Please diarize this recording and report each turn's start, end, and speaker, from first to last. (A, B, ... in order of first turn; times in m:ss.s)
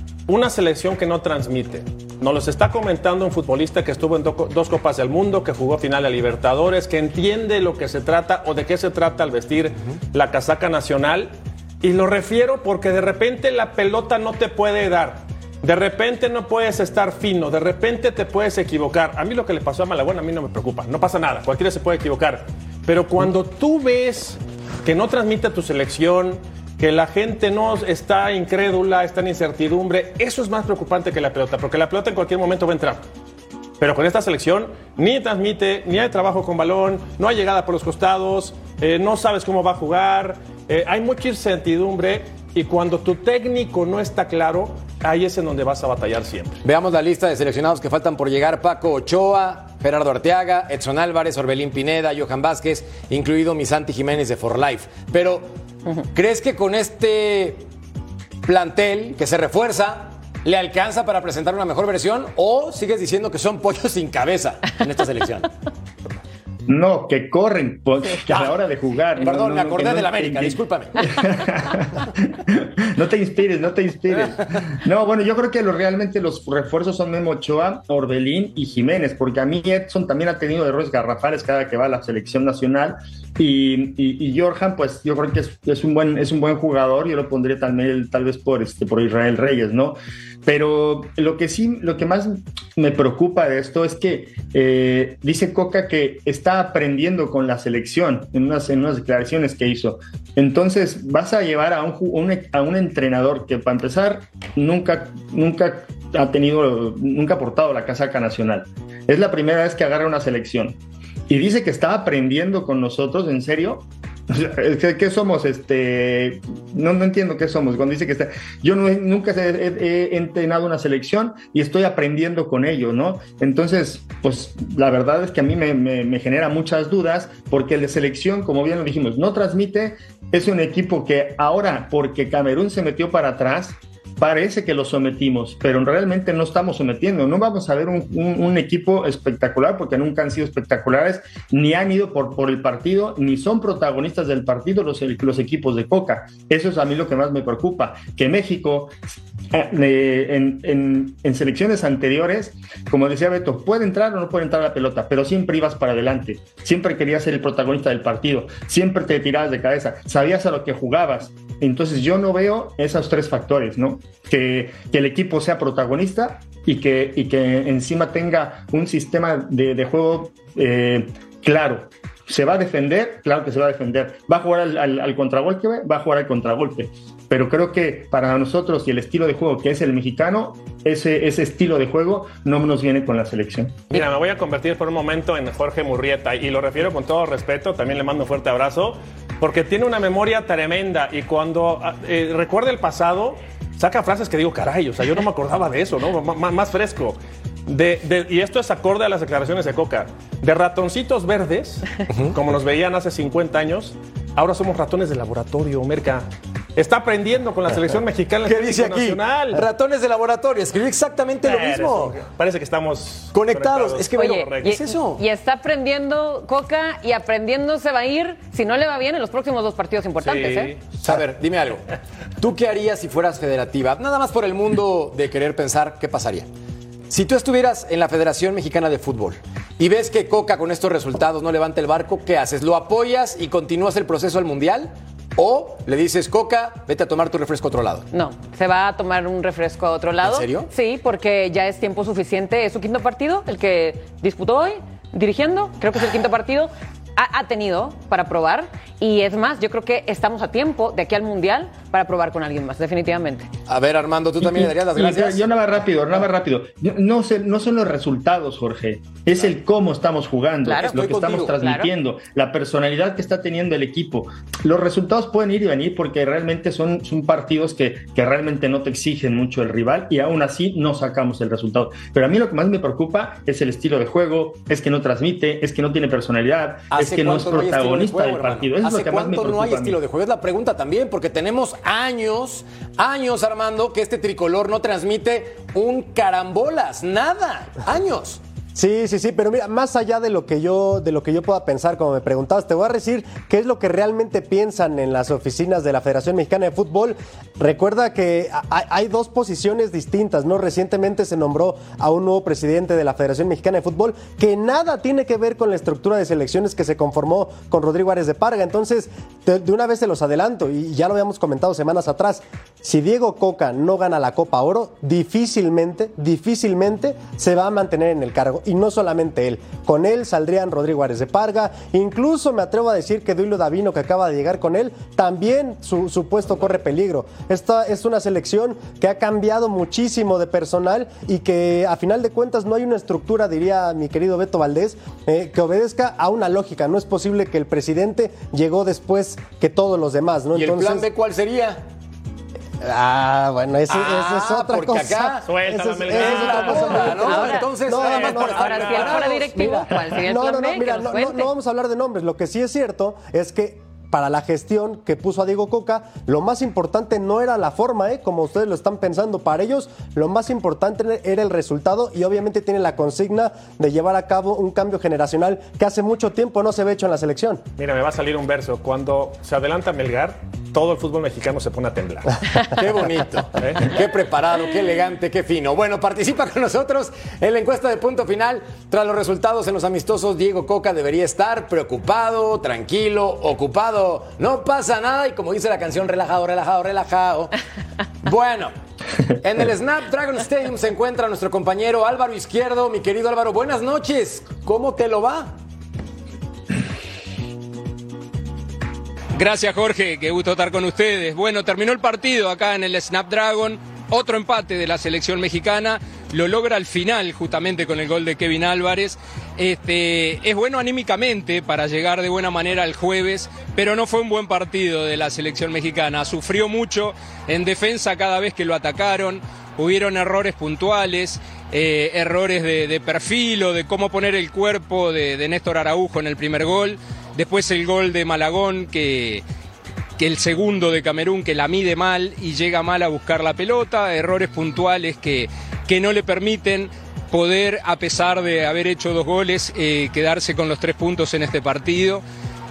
0:00.3-0:33.0 A
0:33.8-0:46.6 A
0:46.6-0:55.5 B
0:56.2-0:57.6 B
0:58.4-1:05.5 B
1:06.7-1:50.8 C
1:09.2-1:11.0 B
1:51.3-2:29.0 C
2:29.5-3:03.8 C
3:03.9-3:29.6 A
3:22.1-3:22.4 B
3:28.4-3:32.2 B
3:31.4-3:34.8 A
3:33.3-3:35.2 B
3:34.2-3:40.8 D
3:40.2-3:40.8 A
3:41.0-3:41.8 B
3:42.4-3:46.5 B
3:47.1-3:58.1 B
3:58.1-4:13.5 D
4:00.2-4:00.7 B
4:13.7-4:15.5 B
4:14.4-4:40.0 C
4:20.6-4:21.9 D
4:20.8-4:21.6 B
4:36.9-4:48.4 B
4:48.8-5:41.1 E
5:40.5-5:41.8 B
5:42.8-5:48.8 E
5:43.9-5:45.5 B
5:45.5-5:49.2 A
5:46.1-5:49.5 B
5:47.2-5:51.5 D
5:49.4-6:07.6 E
6:07.8-6:12.4 A
6:12.6-6:27.5 B
6:13.6-6:14.0 A
6:28.2-6:28.7 B
6:29.4-6:35.5 B
6:39.4-7:09.4 F
7:10.2-7:22.2 F